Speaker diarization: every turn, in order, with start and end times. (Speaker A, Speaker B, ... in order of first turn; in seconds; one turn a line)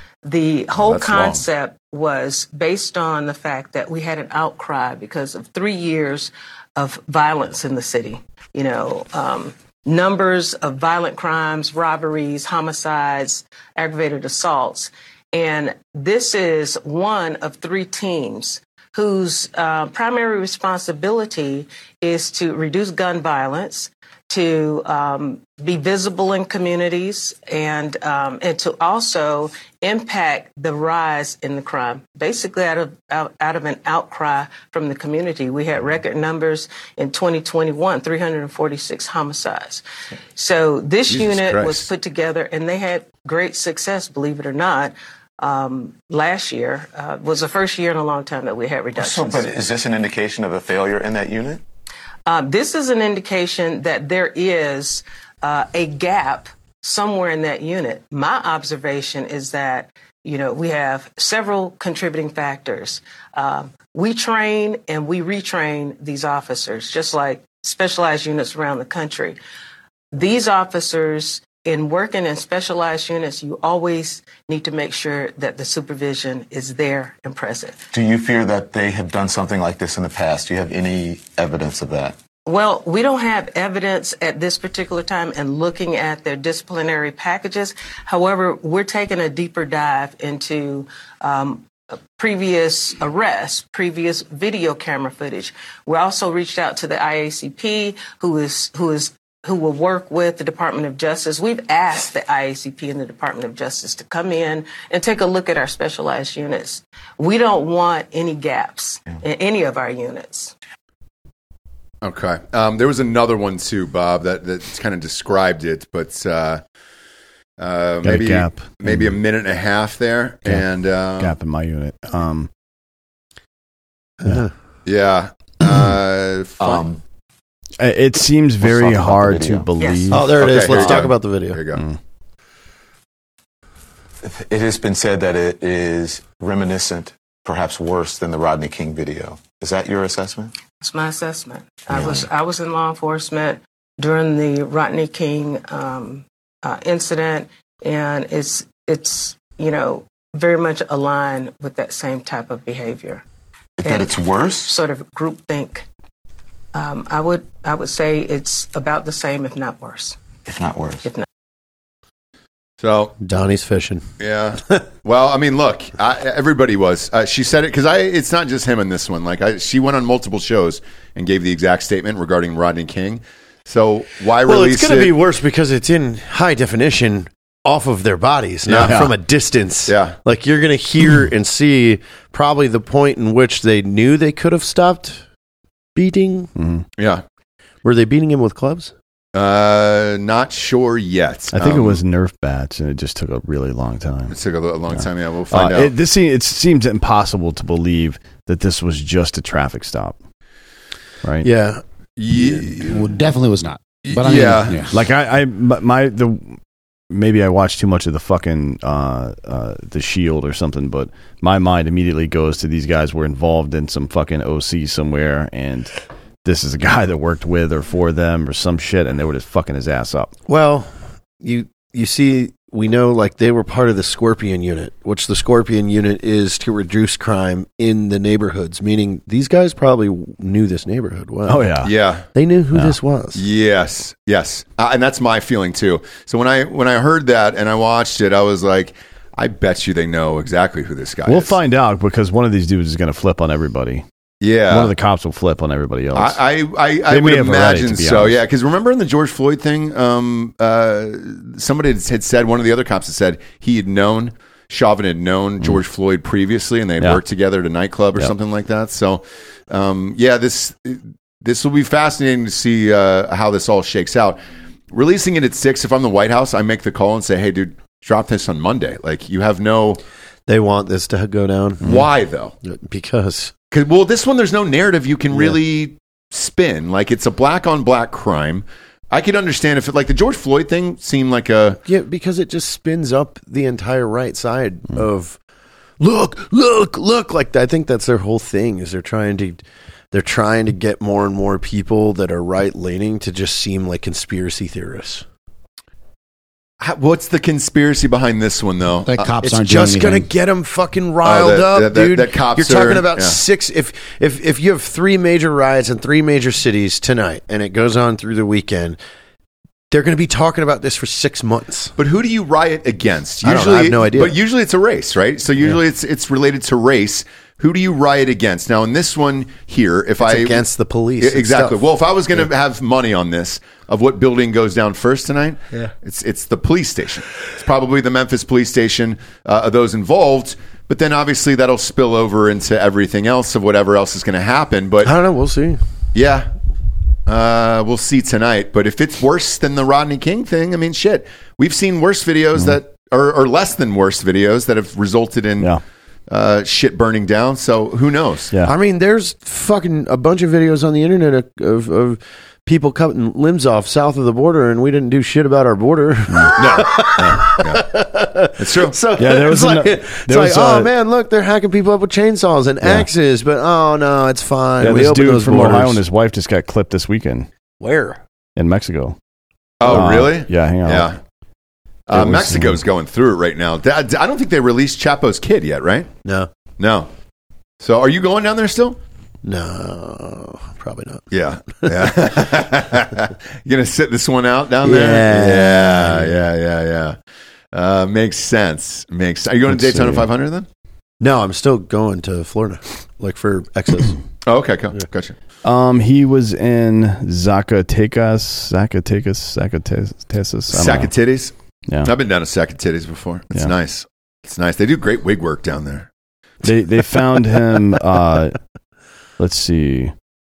Speaker A: 0.2-39.8
Speaker B: 0.8-1.4
Speaker A: 40.4-49.5
Speaker B: 41.1-41.9
Speaker C: 49.0-51.6
Speaker A: 52.3-69.4
Speaker A: 70.1-77.8
Speaker C: 77.9-82.2
Speaker A: 82.5-110.5
Speaker B: 112.0-116.6
Speaker B: 117.6-121.3
Speaker D: 118.0-119.2
Speaker D: 121.2-122.5
Speaker E: 124.2-124.5
Speaker B: 124.9-126.8
Speaker C: 126.6-127.0
Speaker D: 127.8-131.0
Speaker C: 128.6-129.7
Speaker A: 129.8-130.1
Speaker E: 130.1-131.6
Speaker B: 130.2-131.8
Speaker C: 134.2-140.5
Speaker A: 140.8-153.2
Speaker C: 141.9-142.3
Speaker C: 153.8-154.8
Speaker A: 153.8-154.1
Speaker A: 154.6-155.8
Speaker A: 156.7-160.2
Speaker C: 160.5-161.1
Speaker B: 162.8-163.2
Speaker E: 163.2-164.0
Speaker B: 164.2-175.1
Speaker E: 174.4-185.2
Speaker B: 178.7-179.0
Speaker D: 178.7-179.1
Speaker B: 179.9-180.2
Speaker E: 185.9-186.5
Speaker D: 186.6-186.8
Speaker B: 187.0-187.2
Speaker E: 187.8-188.9
Speaker B: 189.3-192.0
Speaker D: 191.5-194.3
Speaker B: 194.3-195.9
Speaker D: 194.9-200.2
Speaker D: 201.2-201.5
Speaker E: 201.4-201.8
Speaker B: 202.2-203.0
Speaker E: 202.3-202.9
Speaker F: 202.9-204.9
Speaker B: 204.0-204.8
Speaker D: 204.9-206.6
Speaker D: 207.1-215.9
Speaker D: 216.4-220.3
Speaker E: 220.5-220.9
Speaker E: 221.4-231.7
Speaker D: 231.5-231.9
Speaker B: 231.8-232.3
Speaker E: 232.3-233.4
Speaker B: 233.3-241.6
Speaker D: 241.3-244.0
Speaker B: 244.4-244.9
Speaker D: 244.7-246.4
Speaker B: 246.2-264.4
Speaker D: 247.1-248.4
Speaker B: 264.9-270.0
Speaker E: 270.5-272.1
Speaker B: 271.8-272.5
Speaker E: 272.6-273.5
Speaker B: 273.7-281.8
Speaker E: 281.8-285.4
Speaker E: 286.0-289.6
Speaker E: 290.1-295.2
Speaker B: 296.8-299.3
Speaker F: 299.1-300.3
Speaker E: 299.4-309.0
Speaker B: 301.2-303.4
Speaker E: 309.9-311.9
Speaker B: 312.0-320.6
Speaker E: 313.4-314.4
Speaker E: 320.2-321.8
Speaker B: 321.2-335.1
Speaker E: 335.0-335.8
Speaker B: 336.1-336.5
Speaker B: 337.3-345.7
Speaker B: 346.3-348.5
Speaker E: 348.6-366.0
Speaker B: 356.6-357.9
Speaker B: 358.6-359.0
Speaker D: 359.2-360.9
Speaker D: 362.8-363.1
Speaker D: 364.8-367.5
Speaker E: 367.8-368.2
Speaker D: 368.6-369.2
Speaker B: 369.8-371.2
Speaker D: 369.9-371.1
Speaker B: 372.1-376.1
Speaker D: 372.1-372.8
Speaker B: 376.8-377.1
Speaker B: 377.8-379.0
Speaker E: 379.4-381.2
Speaker B: 381.3-387.2
Speaker E: 384.8-386.4
Speaker B: 387.7-390.7
Speaker D: 389.7-390.3
Speaker E: 391.2-394.2
Speaker B: 394.5-395.4
Speaker D: 395.6-401.1
Speaker B: 400.7-401.5
Speaker B: 402.0-406.1
Speaker D: 406.6-408.6
Speaker D: 409.4-410.1